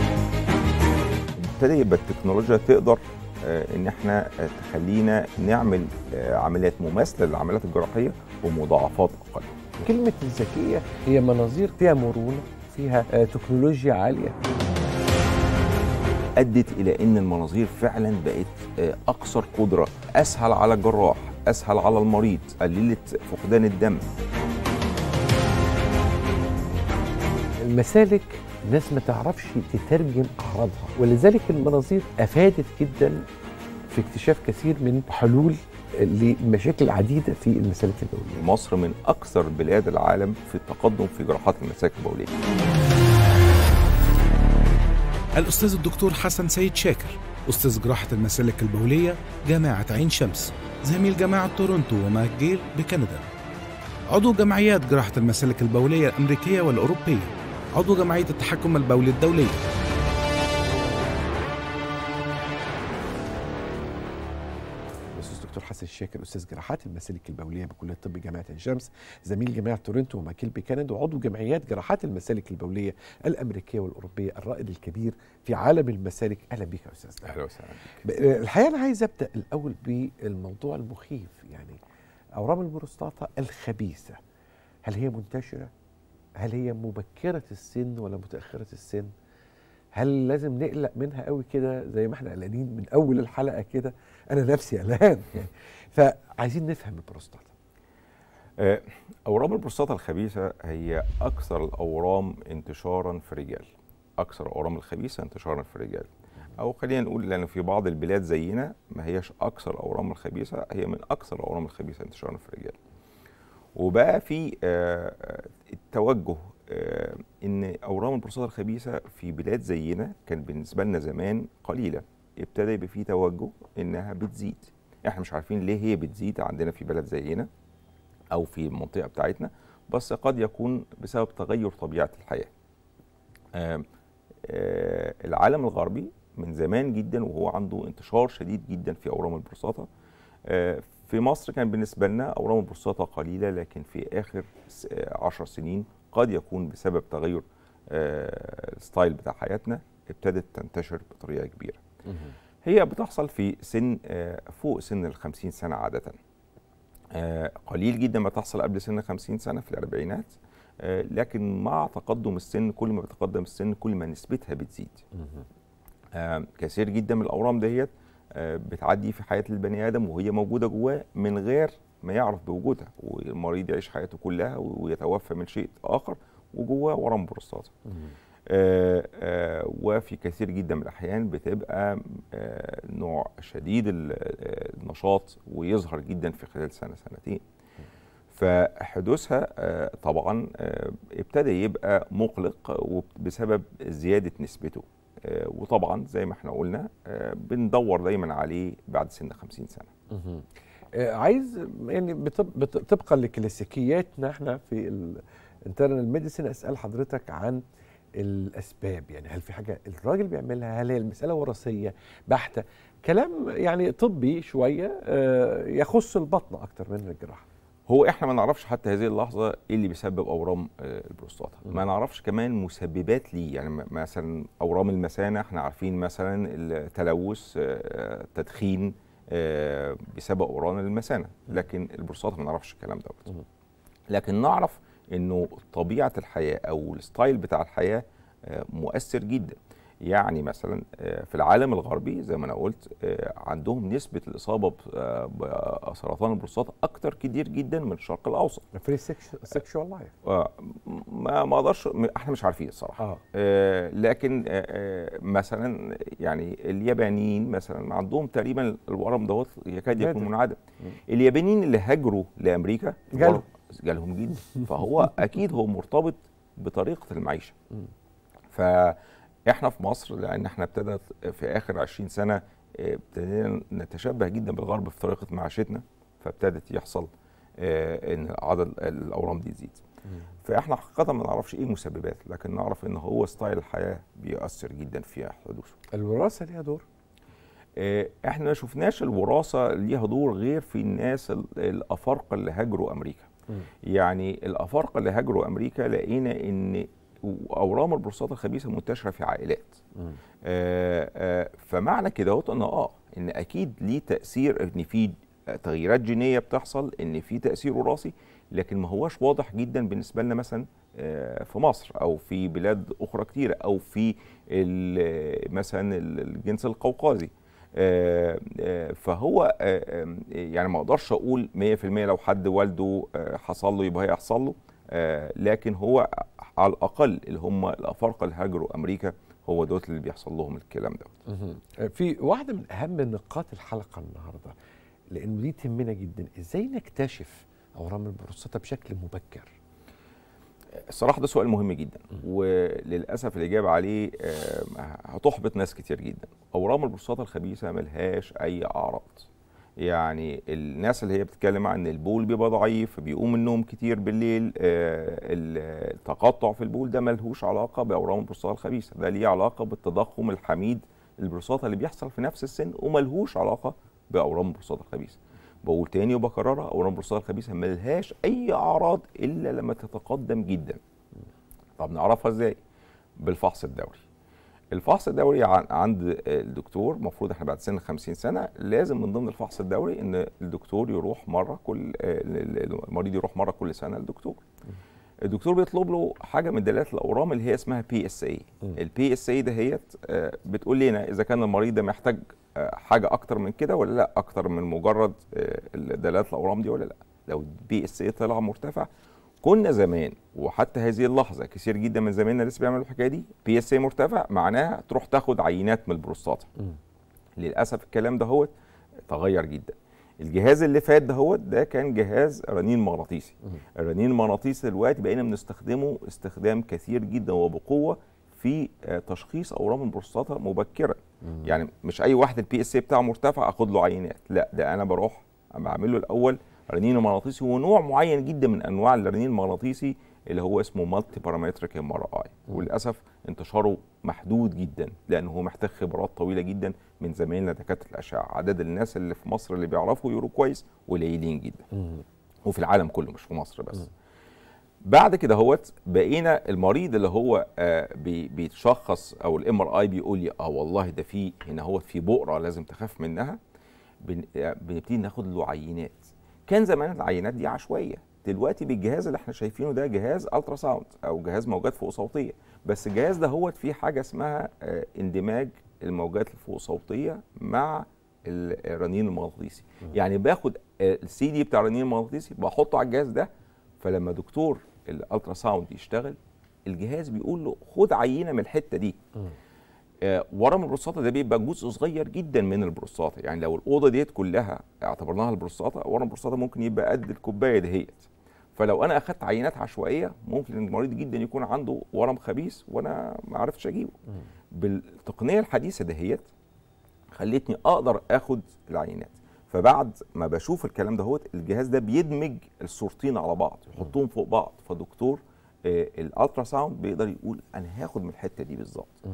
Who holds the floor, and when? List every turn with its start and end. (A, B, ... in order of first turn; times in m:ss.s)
0:01.3-0:09.7 A
0:09.8-0:14.4 B
0:16.4-0:24.1 A
0:27.6-0:33.2 B
0:33.9-0:38.4 B
0:38.4-0:42.4 A
0:45.4-0:53.2 C
0:54.1-0:59.6 C
1:05.2-1:17.4 B
1:17.2-1:17.8 A
1:18.0-1:21.8 B
1:22.4-1:24.2 B
1:24.8-1:25.7 B
1:26.4-1:29.1 B
1:29.9-1:37.5 B
1:38.6-1:52.8 A
1:53.8-2:07.5 A
2:08.3-2:12.5 A
2:13.5-2:13.8 A
2:14.4-2:19.9 A
2:20.4-2:31.8 A
2:32.6-2:36.2 A
2:37.1-2:45.0 A
2:46.1-2:57.7 A
2:58.5-3:07.4 A
3:08.3-3:19.9 A
3:20.1-3:20.4 B
3:21.0-3:27.6 B
3:28.2-3:37.4 B
3:37.9-3:53.3 A
3:54.1-4:08.6 A
4:08.7-4:10.1 B
4:10.2-4:27.6 A
4:20.0-4:20.3 B
4:23.1-4:23.4 B
4:28.5-4:39.8 A
4:40.4-4:45.8 A
4:45.9-4:46.8 B
4:47.8-4:53.3 A
4:53.8-4:59.8 A
5:00.4-5:31.1 A
5:31.3-5:34.5 B
5:35.1-5:39.5 B
5:40.9-6:10.8 A
6:11.8-6:12.6 A
6:13.2-6:14.0 A
6:14.7-6:24.4 A
6:25.2-6:38.9 A
6:39.4-6:46.5 A
6:47.4-6:48.5 A
6:49.1-7:21.7 A
7:22.4-7:23.9 A
7:24.8-7:33.4 A
7:34.0-7:53.3 A
7:53.8-7:59.0 A
8:00.0-8:14.0 A
8:14.5-8:16.2 A
8:17.1-8:29.0 A